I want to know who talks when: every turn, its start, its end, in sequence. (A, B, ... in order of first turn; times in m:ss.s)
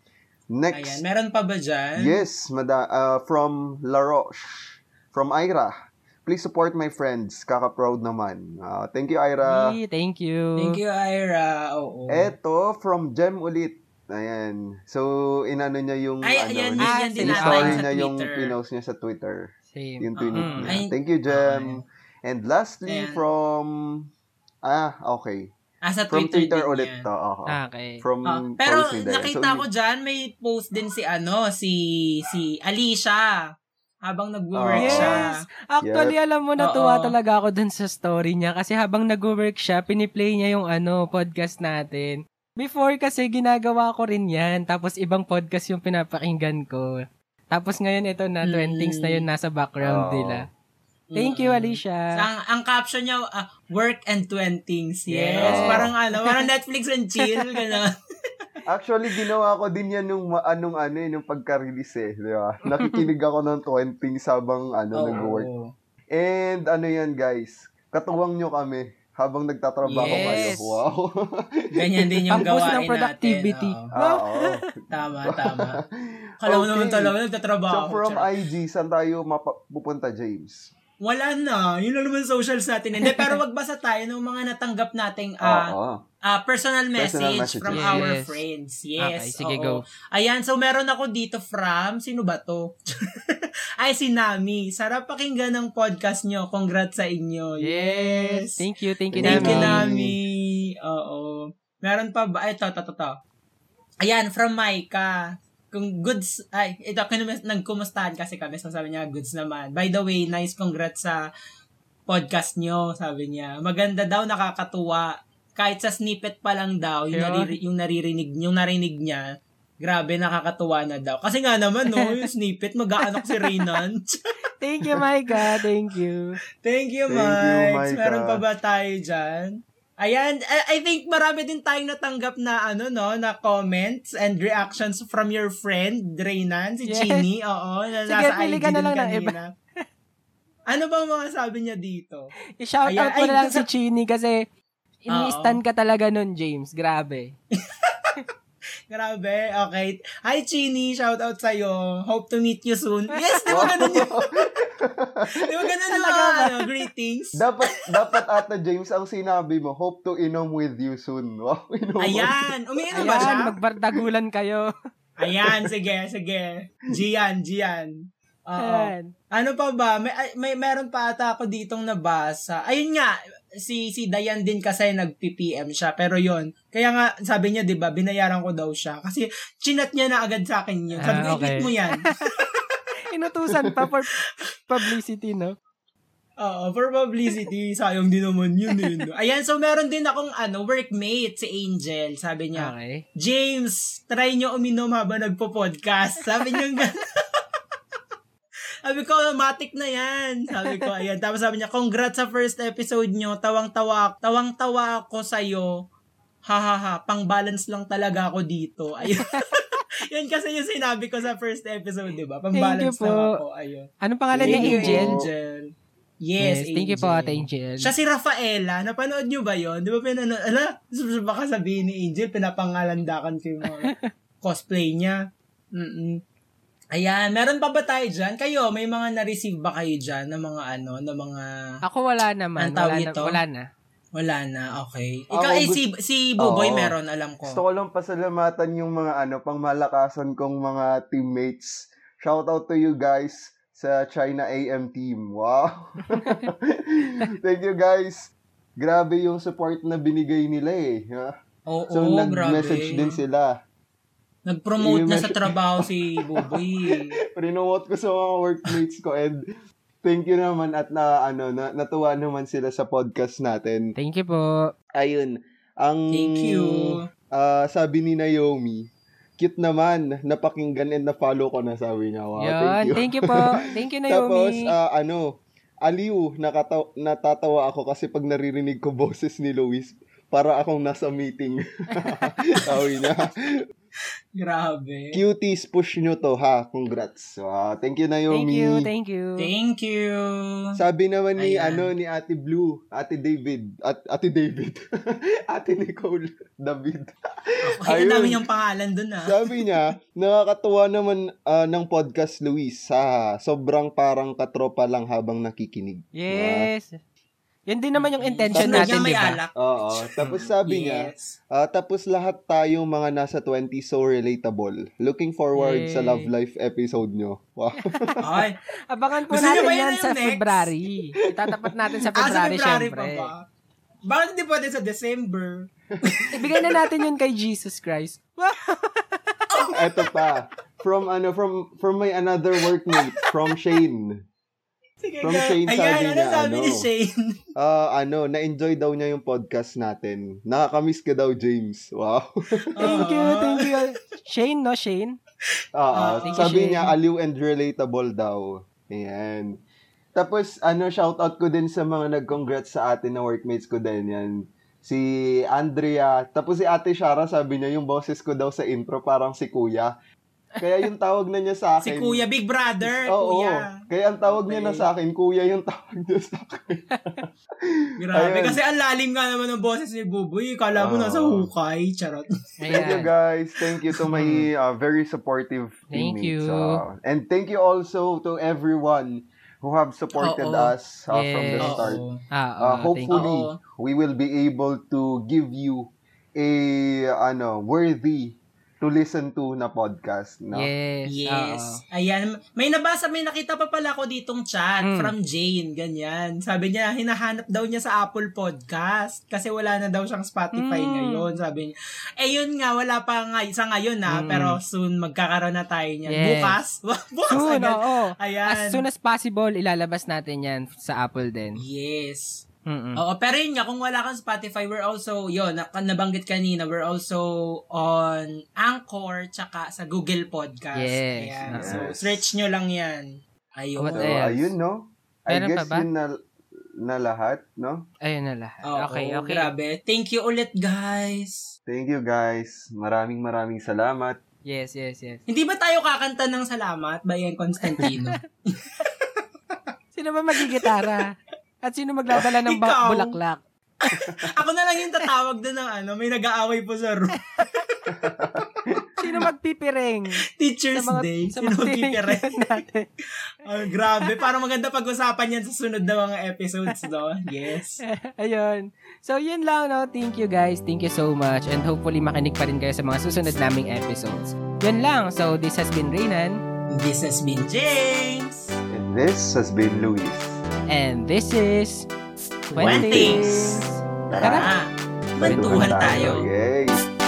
0:00.5-0:01.0 A
0:00.7-0:02.2 B
0:02.0-0:09.7 A
0:09.5-0:10.8 C
0:10.6-0:12.3 B
0:12.1-0:24.1 A
0:16.2-0:18.5 B
0:16.8-0:17.8 C
0:19.7-0:20.8 C
0:20.2-0:21.8 B
0:22.9-0:23.3 B
0:24.6-0:25.5 A
0:25.8-0:27.1 B
0:26.1-0:29.6 A
0:27.5-0:28.0 C
0:28.3-0:33.4 B
0:34.0-0:35.3 B
0:34.5-0:35.2 A
0:34.7-0:46.9 C
0:35.8-0:36.1 A
0:36.6-0:37.1 B
0:47.5-0:50.4 C
0:48.4-0:49.2 B
0:49.8-0:50.4 A
0:51.1-0:57.9 B
0:51.2-0:52.0 C
0:55.1-0:56.4 C
0:55.4-0:55.9 A
0:57.2-0:57.5 C
0:58.7-1:05.5 A
1:02.7-1:03.0 C
1:04.9-1:05.7 B
1:06.1-1:11.1 A
1:09.9-1:10.5 B
1:10.0-1:10.8 C
1:11.8-1:13.9 B
1:11.9-1:12.4 A
1:12.3-1:14.6 C
1:13.9-1:15.4 A
1:14.9-1:15.8 B
1:16.4-1:17.1 A
1:16.4-1:18.3 B
1:17.7-1:20.7 A
1:21.0-1:25.7 B
1:23.0-1:23.4 C
1:25.4-1:26.0 A
1:26.3-1:32.8 B
1:27.0-1:28.1 A
1:27.7-1:28.4 C
1:29.0-1:29.8 C
1:33.8-1:38.5 B
1:37.6-1:39.8 C
1:39.1-1:40.1 A
1:39.2-1:43.2 B
1:44.0-1:45.1 B
1:45.7-1:51.2 B
1:52.1-1:59.3 B
1:57.1-1:57.5 C
1:59.8-2:04.2 B
2:04.6-2:06.4 C
2:06.6-2:19.5 B
2:07.1-2:08.4 A
2:16.9-2:17.2 C
2:18.0-2:19.4 C
2:20.7-2:22.3 B
2:22.6-2:24.4 C
2:22.8-2:23.6 B
2:25.0-2:27.3 C
2:25.1-2:25.6 B
2:28.9-2:34.3 B
2:33.2-2:33.7 C
2:33.5-2:35.2 A
2:35.3-2:37.4 B
2:35.9-2:36.7 C
2:37.3-2:42.4 A
2:42.0-2:43.5 B
2:42.9-2:43.4 A
2:42.9-2:44.7 C
2:45.2-2:47.9 B
2:45.4-2:45.7 A
2:48.4-3:02.0 B
2:48.6-2:49.1 C
3:01.0-3:01.8 C
3:03.1-3:04.2 C
3:03.5-3:03.8 A
3:04.7-3:05.6 C
3:06.4-3:16.9 B
3:12.6-3:13.0 C
3:18.8-3:25.7 B
3:26.5-3:33.9 B
3:32.5-3:33.3 C
3:34.0-3:35.2 C
3:34.3-3:35.3 A
3:34.4-3:35.7 B
3:36.2-3:43.9 B
3:36.4-3:37.9 C
3:44.4-3:45.2 B
3:45.8-3:46.1 B
3:46.9-3:51.5 B
3:51.8-3:53.6 C
3:52.6-3:53.4 B
3:54.2-3:57.6 B
3:55.3-3:55.8 A
3:56.4-3:56.9 A
3:57.4-4:11.3 A
4:06.2-4:06.4 C
4:11.7-4:13.1 B
4:11.9-4:13.5 A
4:14.4-4:17.2 B
4:14.8-4:15.5 A
4:17.3-4:19.4 A
4:20.0-4:23.9 A
4:24.0-4:24.7 C
4:25.0-4:26.7 A
4:26.1-4:27.0 B
4:27.3-4:28.9 A
4:29.4-4:33.4 A
4:32.4-4:34.6 C
4:34.1-4:43.4 A
4:42.0-4:42.3 C
4:44.4-4:45.2 B
4:45.1-4:48.9 A
4:48.3-4:49.5 C
4:49.4-4:50.6 B
4:50.8-4:57.1 A
4:51.4-4:51.9 B
4:57.8-4:59.7 B
4:57.8-4:58.4 A
4:59.2-5:06.7 A
5:06.2-5:07.0 C
5:07.7-5:09.4 C
5:07.9-5:11.3 B
5:09.6-5:18.0 A
5:15.5-5:16.3 C
5:17.9-5:18.2 C
5:18.2-5:18.6 B
5:18.9-5:23.3 C
5:19.3-5:20.7 B
5:22.2-5:23.4 B
5:24.0-5:26.7 B
5:26.3-5:29.2 C
5:29.5-5:30.1 B
5:29.7-5:34.2 A
5:35.0-5:37.3 B
5:35.2-5:36.9 A
5:37.6-5:43.1 A
5:42.8-5:43.7 B
5:42.8-5:45.2 C
5:45.8-5:49.6 A
5:45.9-5:46.6 B
5:46.2-5:46.9 C
5:50.2-5:59.9 A
6:00.6-6:02.2 A
6:00.6-6:00.9 C
6:01.8-6:03.7 B
6:02.8-6:06.8 A
6:04.2-6:04.9 B
6:06.9-6:07.2 C
6:08.0-6:13.0 B
6:08.1-6:08.6 A
6:10.7-6:11.5 A
6:12.6-6:13.1 C
6:12.7-6:22.0 A
6:14.1-6:14.5 C
6:15.9-6:16.8 C
6:20.2-6:20.7 B
6:21.1-6:23.3 C
6:21.6-6:22.2 B
6:22.6-6:30.7 A
6:23.1-6:23.6 B
6:30.5-6:31.8 C
6:31.1-6:48.8 B
6:34.8-6:35.1 C
6:40.5-6:41.2 C
6:44.1-6:44.6 C
6:46.1-6:46.6 C
6:47.3-6:51.6 C
6:51.6-6:52.4 B
6:52.7-6:53.0 C
6:53.0-6:57.2 B
6:57.8-7:04.2 B
7:00.7-7:01.8 C
7:01.5-7:02.3 A
7:03.8-7:04.5 C
7:03.9-7:06.1 A
7:05.3-7:05.9 C
7:06.8-7:07.8 A
7:08.0-7:09.5 C
7:08.7-7:11.5 B
7:11.7-7:14.2 A
7:14.4-7:15.2 C
7:15.3-7:18.2 B
7:17.8-7:18.1 C
7:19.9-7:21.1 C
7:21.6-7:23.4 C
7:22.2-7:23.2 B
7:23.9-7:27.6 B
7:24.0-7:24.2 A
7:27.9-7:29.3 A
7:29.0-7:30.2 C
7:30.4-7:32.5 B
7:30.7-7:32.8 C
7:33.4-7:37.8 B
7:37.8-7:46.4 C
7:46.7-7:48.5 B
7:48.7-7:50.4 A
7:50.7-7:51.9 C
7:52.5-7:54.5 C
7:52.6-7:53.2 B
7:52.6-7:54.5 A
7:54.2-7:56.3 B
7:55.2-7:56.8 A
7:55.2-7:56.2 C